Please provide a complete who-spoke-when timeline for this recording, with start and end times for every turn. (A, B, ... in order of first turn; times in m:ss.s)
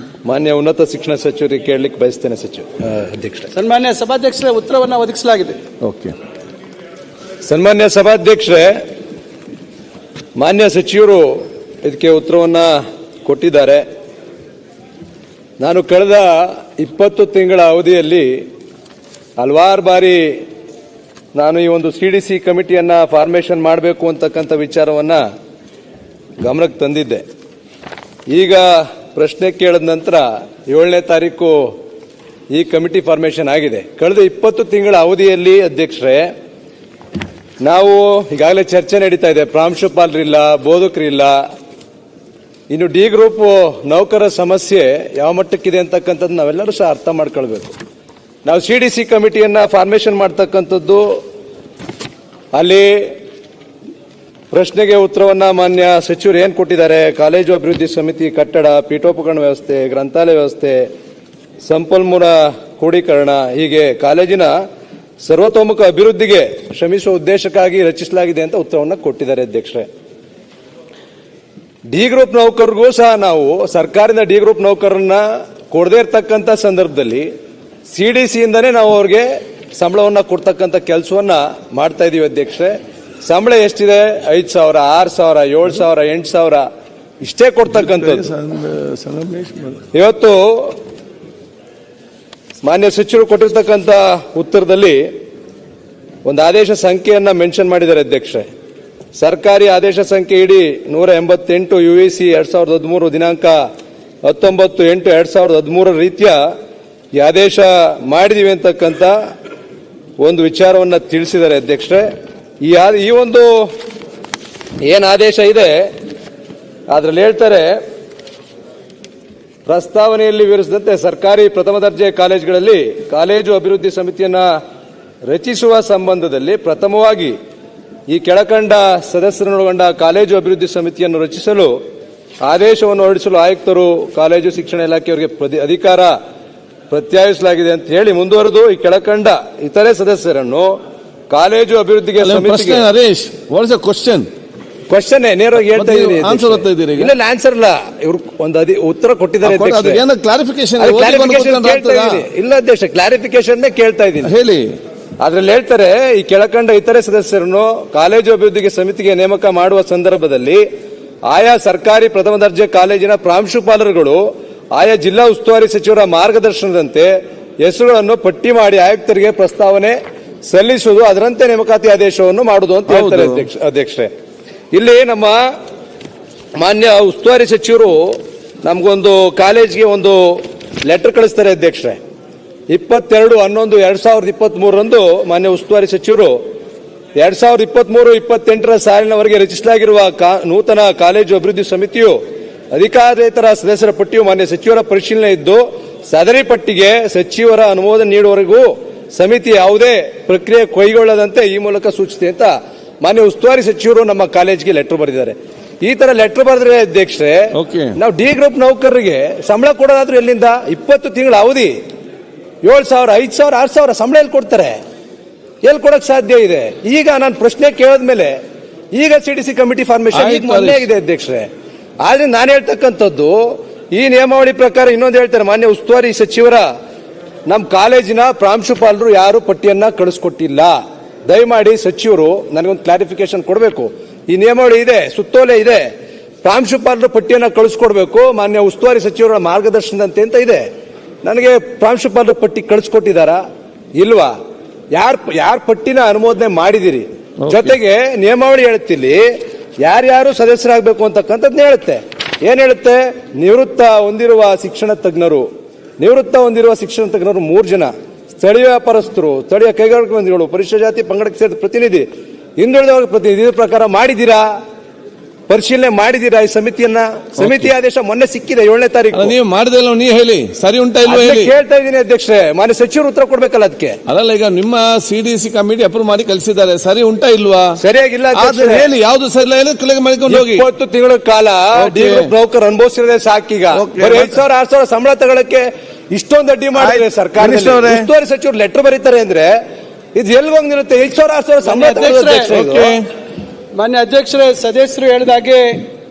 0:00.2-0:03.5 A
0:03.5-0:05.6 B
0:05.8-0:06.1 C
0:07.5-0:08.7 A
0:10.4-0:12.7 A
0:13.2-0:13.8 A
0:15.6-0:18.4 A
0:19.4-0:20.3 A
0:21.3-0:25.2 A
0:26.4-0:27.2 A
0:28.3-0:31.7 A
0:32.5-0:36.3 A
0:37.6-0:41.4 A
0:42.7-0:47.8 A
0:48.4-0:51.2 A
0:52.5-0:53.1 A
0:54.5-1:00.9 A
1:01.6-1:04.5 A
1:05.2-1:09.9 A
1:11.9-1:17.3 A
1:17.9-1:22.7 A
1:23.2-1:26.6 A
1:27.2-1:28.3 A
1:27.7-1:29.8 C
1:29.9-1:30.8 A
1:32.6-1:35.1 A
1:36.2-1:38.4 A
1:39.2-1:43.6 A
1:44.2-1:46.4 A
1:47.2-1:49.1 A
1:50.2-1:52.1 A
1:52.6-1:53.7 A
1:54.8-1:55.9 A
1:56.9-1:57.8 A
1:59.7-2:04.4 A
2:05.3-2:07.4 A
2:08.1-2:11.7 A
2:12.4-2:16.1 A
2:16.9-2:20.8 A
2:21.3-2:22.8 A
2:22.2-2:24.3 C
2:24.9-2:30.0 A
2:25.6-2:27.1 C
2:29.4-2:32.2 C
2:30.8-2:34.3 A
2:34.2-2:34.7 C
2:35.2-2:40.6 A
2:41.2-2:44.2 A
2:44.7-2:54.1 A
2:52.9-2:53.4 C
2:54.7-2:55.4 A
2:56.6-3:02.0 A
3:02.7-3:06.4 A
3:07.2-3:12.2 A
3:12.7-3:31.7 A
3:27.5-3:28.0 C
3:32.6-3:34.8 A
3:35.6-3:38.3 A
3:38.9-3:41.5 A
3:40.1-3:40.9 C
3:42.0-3:46.6 A
3:47.5-3:50.7 A
3:51.3-3:55.9 A
3:56.4-4:00.6 A
4:01.2-4:03.4 A
4:04.0-4:04.3 A
4:04.9-4:09.2 A
4:07.4-4:07.7 C
4:09.8-4:15.5 A
4:16.0-4:22.0 A
4:22.6-4:24.5 A
4:25.5-4:29.3 A
4:27.4-4:27.7 C
4:29.1-4:31.5 C
4:31.0-4:34.0 A
4:34.1-4:37.8 C
4:37.8-4:38.9 A
4:38.3-4:40.6 C
4:40.3-4:49.5 A
4:41.8-4:42.3 C
4:43.7-4:44.3 C
4:46.8-4:48.1 C
4:50.1-4:53.0 A
4:51.6-4:52.6 B
4:51.8-4:53.0 C
4:53.7-4:55.8 B